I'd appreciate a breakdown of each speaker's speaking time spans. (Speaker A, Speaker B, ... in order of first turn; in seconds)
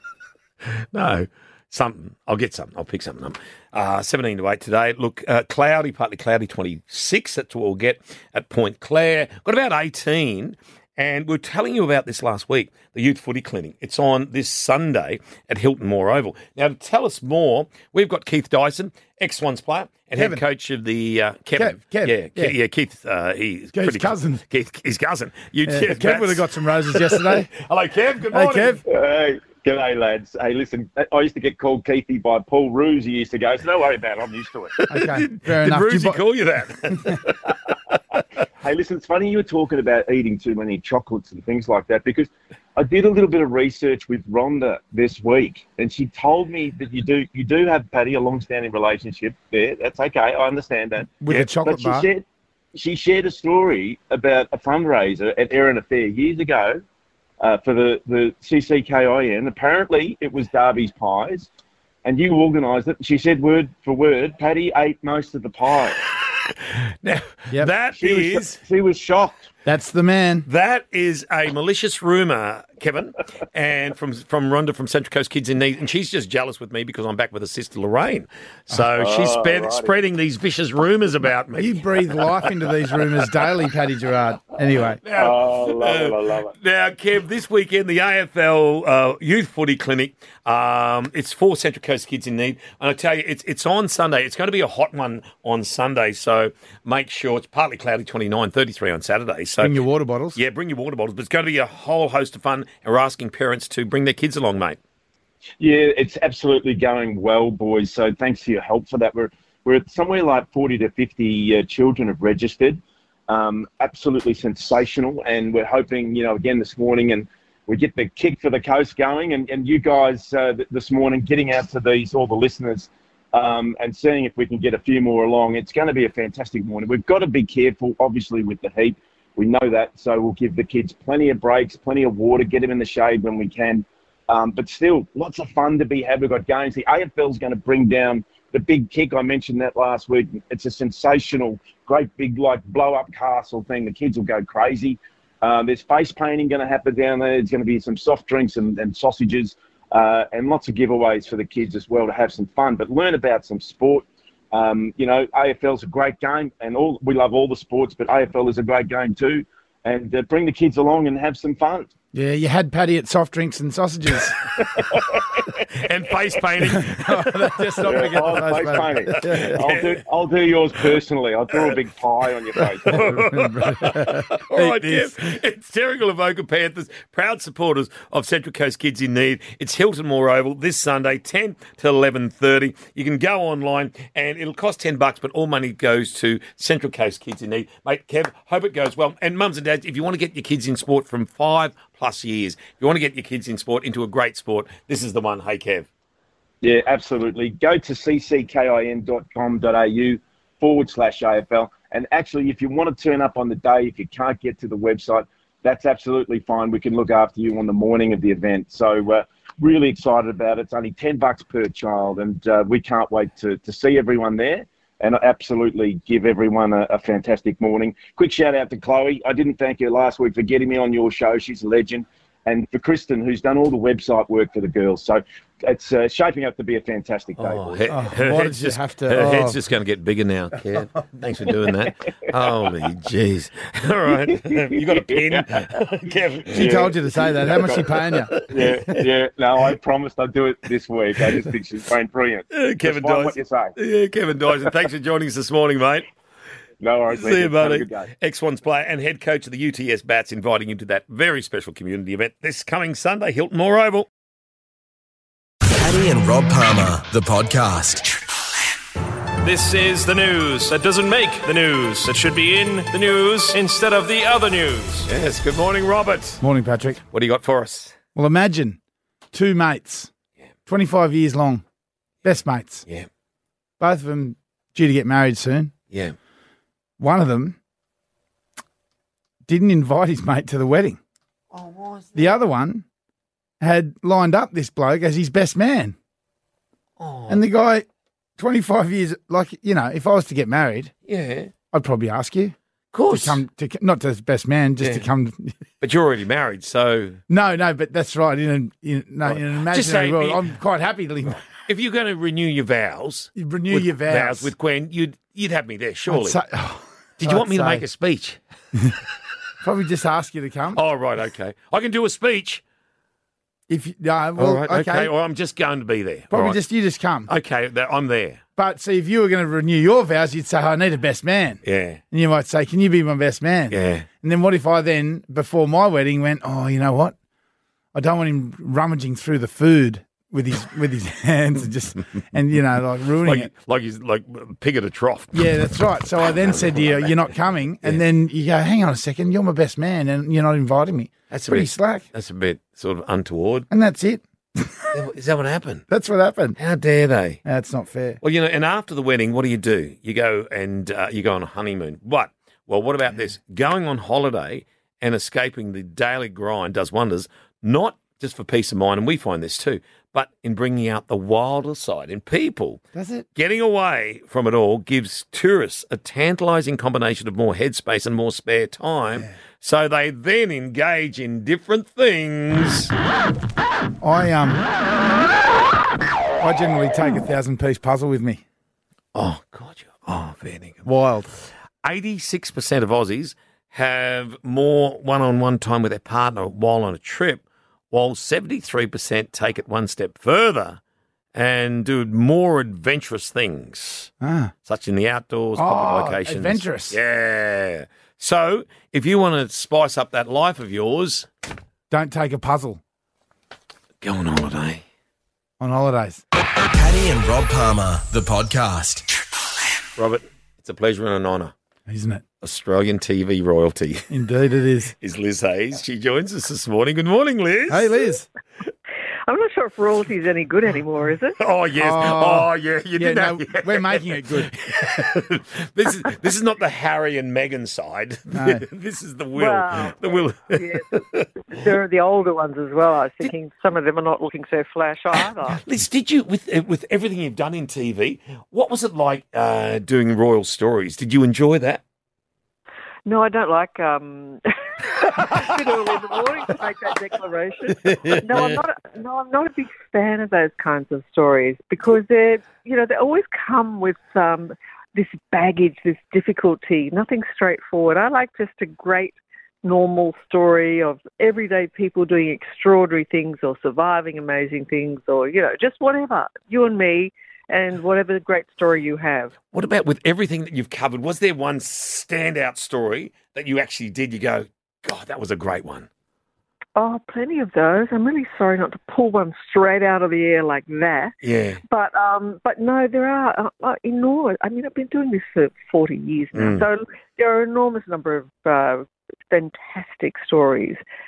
Speaker A: 0.9-28.8, 34.8-38.2, 66.5-68.6, 70.5-82.5, 85.0-99.8, 100.3-104.8, 165.8-168.2, 169.1-170.0, 172.8-195.9, 227.4-236.9, 238.3-238.7, 242.5-246.1, 247.1-254.1, 265.1-266.4, 267.1-268.0, 281.5-282.4, 287.0-287.4, 291.1-291.5, 292.9-293.4, 294.8-295.1, 295.8-297.2, 299.3-300.5, 301.7-306.4, 307.2-308.4, 310.8-312.6, 314.4-316.6, 317.3-318.4, 321.6-322.0, 323.7-324.1, 333.2-335.3, 336.4-337.2, 341.3-343.7, 344.9-345.9, 346.6-347.4, 348.2-362.8, 363.4-372.9, 379.1-380.9, 381.8-390.8, 391.3-394.1, 394.7-401.3, 404.0-404.8, 410.0-411.5, 412.4-414.1, 415.0-418.1, 421.4-431.3, 435.5-441.8, 447.8-448.6, 469.5-475.9, 481.2-481.6, 486.3-486.6
Speaker B: 20.2-20.4, 21.6-22.6, 23.7-24.4, 25.6-27.5, 28.3-28.8, 34.9-36.2, 36.9-37.2, 51.2-52.1, 69.7-70.5, 81.6-85.0, 99.6-100.4, 162.1-164.4, 166.6-169.6, 172.8-175.1, 227.9-229.6, 236.5-238.4, 266.4-267.0, 268.1-268.8, 269.3-270.1, 270.7-271.6, 272.2-272.9, 273.8-275.7, 277.0-277.6, 279.5-281.0, 282.2-282.9, 283.6-286.0, 287.3-287.9, 288.4-290.9, 291.7-292.6, 293.1-295.6, 297.3-301.4, 303.4-304.5, 306.1-307.8, 309.6-310.8, 313.7-315.1, 316.3-317.3, 318.6-321.6, 322.1-327.1, 327.9-333.5, 335.3-342.1, 343.7-345.0, 345.9-346.6, 347.4-348.2, 362.9-363.3, 374.0-374.6, 376.4-378.4, 380.9-381.3, 394.2-394.5, 395.6-397.0, 401.9-402.8, 405.6-406.2, 411.9-412.2, 414.1-414.9, 417.7-418.3, 421.8-424.5, 428.3-428.6
Speaker C: 28.9-34.7, 38.6-56.8, 57.4-61.5, 62.0-66.1, 68.0-69.5, 78.9-80.0, 85.1-86.5, 105.6-161.9, 164.9-165.5, 167.8-173.1, 196.6-227.9, 234.2-243.8, 246.8-248.1
Speaker D: 255.7-258.1, 406.7-409.1
Speaker E: 259.4-265.1
Speaker F: 419.3-421.4, 429.4-435.6, 443.1-469.3, 476.8-481.1, 481.7-490.8